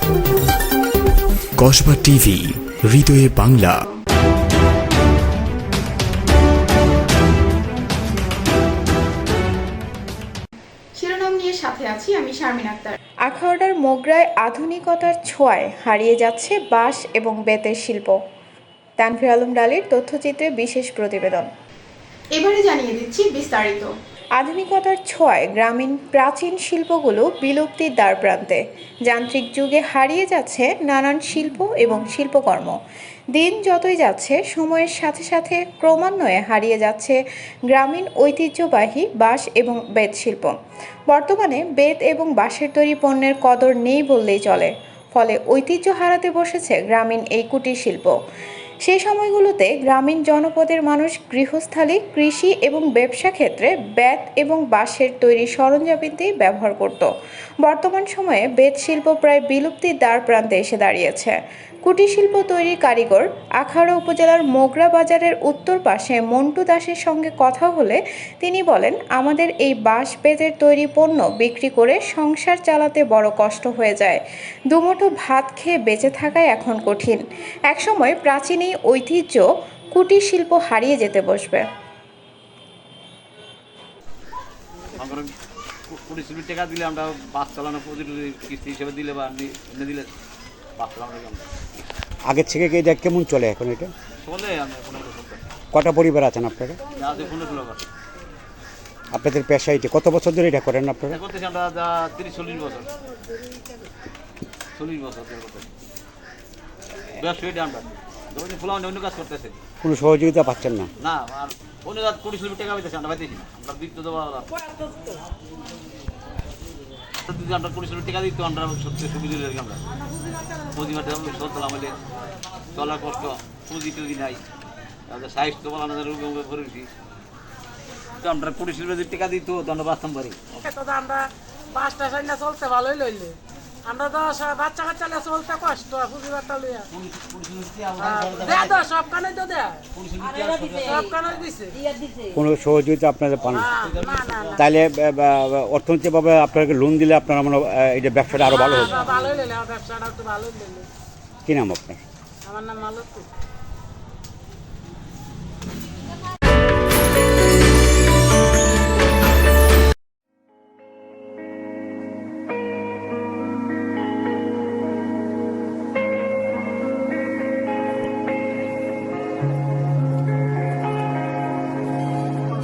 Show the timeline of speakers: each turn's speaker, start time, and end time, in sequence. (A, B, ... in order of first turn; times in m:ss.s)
0:01.6-0:03.7 A
0:11.0-0:13.0 B
0:13.3-0:18.2 C
0:19.0-0:21.5 C
0:22.4-0:23.9 B
0:24.4-0:32.8 C
0:33.3-0:37.2 C
0:37.7-0:40.5 C
0:41.1-0:48.1 C
0:48.8-0:57.1 C
0:57.6-1:21.6 C
1:24.9-1:25.3 D
1:25.9-1:30.1 D
1:30.8-1:31.4 D
1:32.3-1:33.9 E
1:34.2-1:35.4 D
1:35.7-1:36.8 E
1:36.9-1:37.8 D
1:39.1-1:41.2 E
1:41.1-1:43.0 D
1:44.7-1:45.7 D
1:47.2-1:49.6 D
1:49.8-1:50.9 E
1:51.0-1:54.7 D
1:57.2-1:59.8 D
2:00.6-2:02.0 D
2:02.7-2:04.4 D
2:05.1-2:06.9 D
2:08.2-2:10.6 D
2:10.6-2:16.8 F
2:16.9-2:18.9 D
2:18.1-2:19.8 F
2:19.9-2:21.5 D
2:20.8-2:21.7 F
2:22.3-2:23.7 E
2:23.4-2:24.7 D
2:24.0-2:24.5 F
2:24.5-2:28.9 E
2:28.4-2:29.5 D
2:28.9-2:30.9 F
2:31.4-2:32.0 E
2:32.4-2:33.2 F